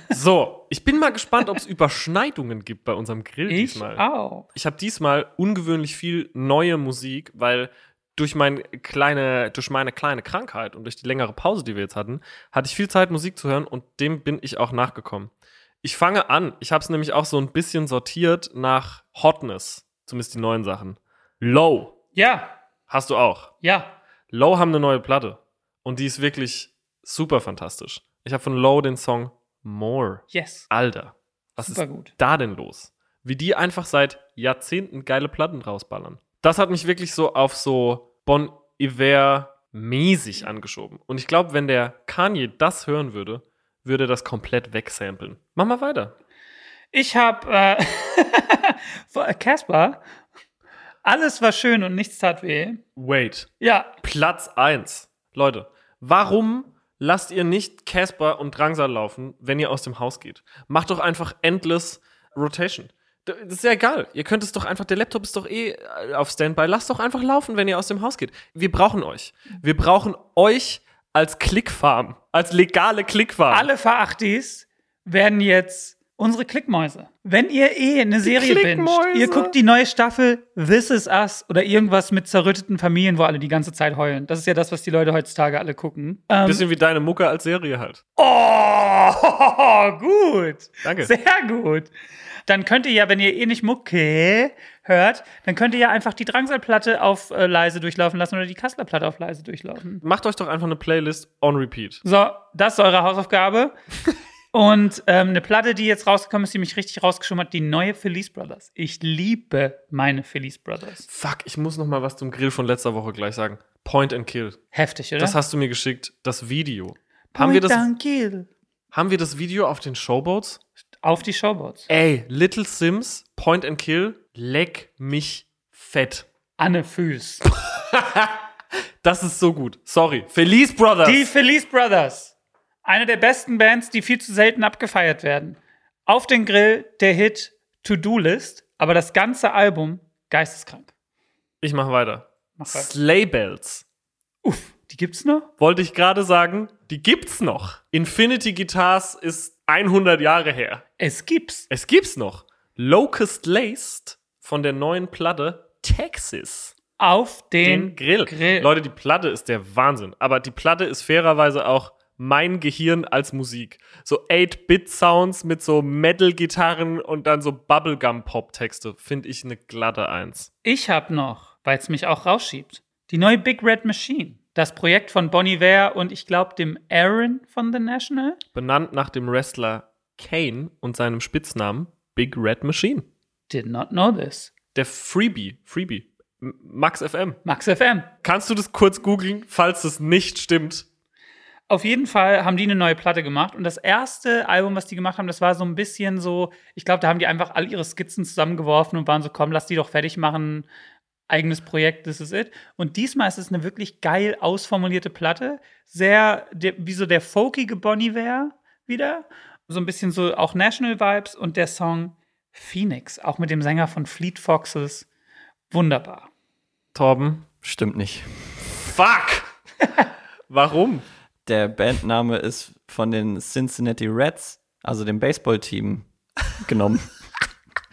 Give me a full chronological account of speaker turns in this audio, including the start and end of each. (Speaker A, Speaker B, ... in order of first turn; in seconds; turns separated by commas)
Speaker A: 0.1-21.9, Speaker B: 3.5-4.5, Speaker B: 22.1-22.6, Speaker A: 22.9-23.5, Speaker B: 23.6-24.0, Speaker A: 24.3-46.1, Speaker B: 30.3-30.7, Speaker B: 31.6-32.1, Speaker B: 46.9-50.0, Speaker B: 51.0-52.8, Speaker A: 53.0-53.5, Speaker B: 53.6-53.9, Speaker A: 54.0-73.7, Speaker B: 73.5-86.6, Speaker A: 78.2-79.5, Speaker A: 86.5-88.0, Speaker B: 88.2-91.9, Speaker A: 90.8-91.1, Speaker B: 92.5-100.0, Speaker A: 100.0-102.0, Speaker B: 102.0-103.7, Speaker B: 104.5-111.1, Speaker A: 111.1-114.6, Speaker B: 114.7-115.4, Speaker A: 115.2-117.9, Speaker B: 117.3-118.5, Speaker A: 118.9-120.6, Speaker B: 121.0-121.9, Speaker A: 121.9-126.3, Speaker B: 126.6-127.5, Speaker A: 127.5-128.4, Speaker A: 129.0-131.2, Speaker B: 131.0-140.9, Speaker A: 141.6-143.8, Speaker B: 142.6-142.9, Speaker B: 144.4-145.5, Speaker A: 145.6-150.8, Speaker B: 151.0-151.7, Speaker A: 151.7-156.7, Speaker B: 157.0-158.7, Speaker A: 157.6-170.5, Speaker B: 170.6-178.4, Speaker A: 178.6-183.1, Speaker B: 183.5-184.5, Speaker A: 184.7-187.4, Speaker B: 187.4-188.1, Speaker A: 188.2-190.9, Speaker B: 191.7-200.7, Speaker B: 201.3-215.1, Speaker B: 215.7-216.3, Speaker A: 216.9-217.5, Speaker C: 217.6-218.8, Speaker A: 218.8-219.5, Speaker A: 220.5-221.1, Speaker C: 221.4-227.1